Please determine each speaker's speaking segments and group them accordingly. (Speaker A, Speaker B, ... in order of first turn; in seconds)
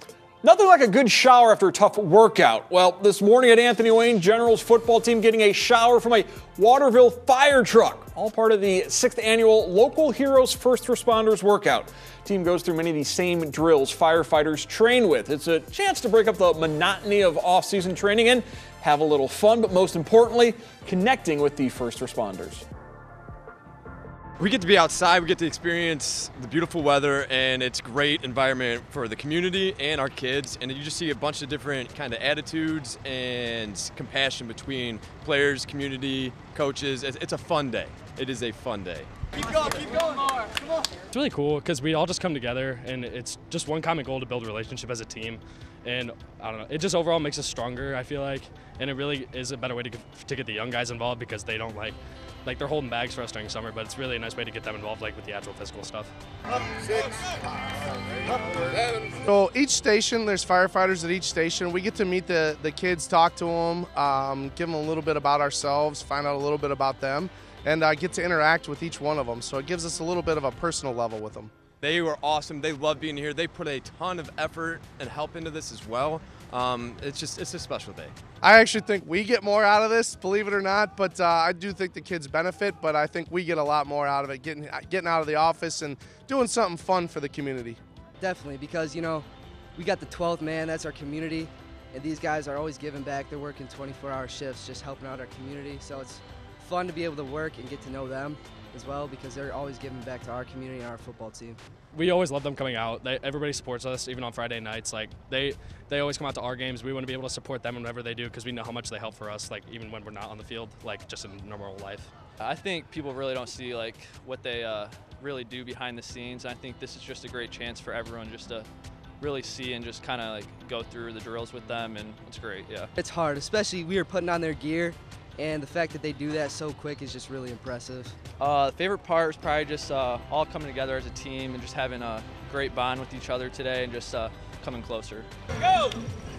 Speaker A: 0.4-22.6
Speaker B: 24.4-39.8, 71.8-78.1
Speaker C: 41.1-56.1, 101.9-112.1
Speaker D: 59.2-71.5, 78.4-87.8
Speaker E: 88.2-101.6, 123.0-128.2
Speaker F: 112.4-118.7, 119.2-122.9, 128.4-135.3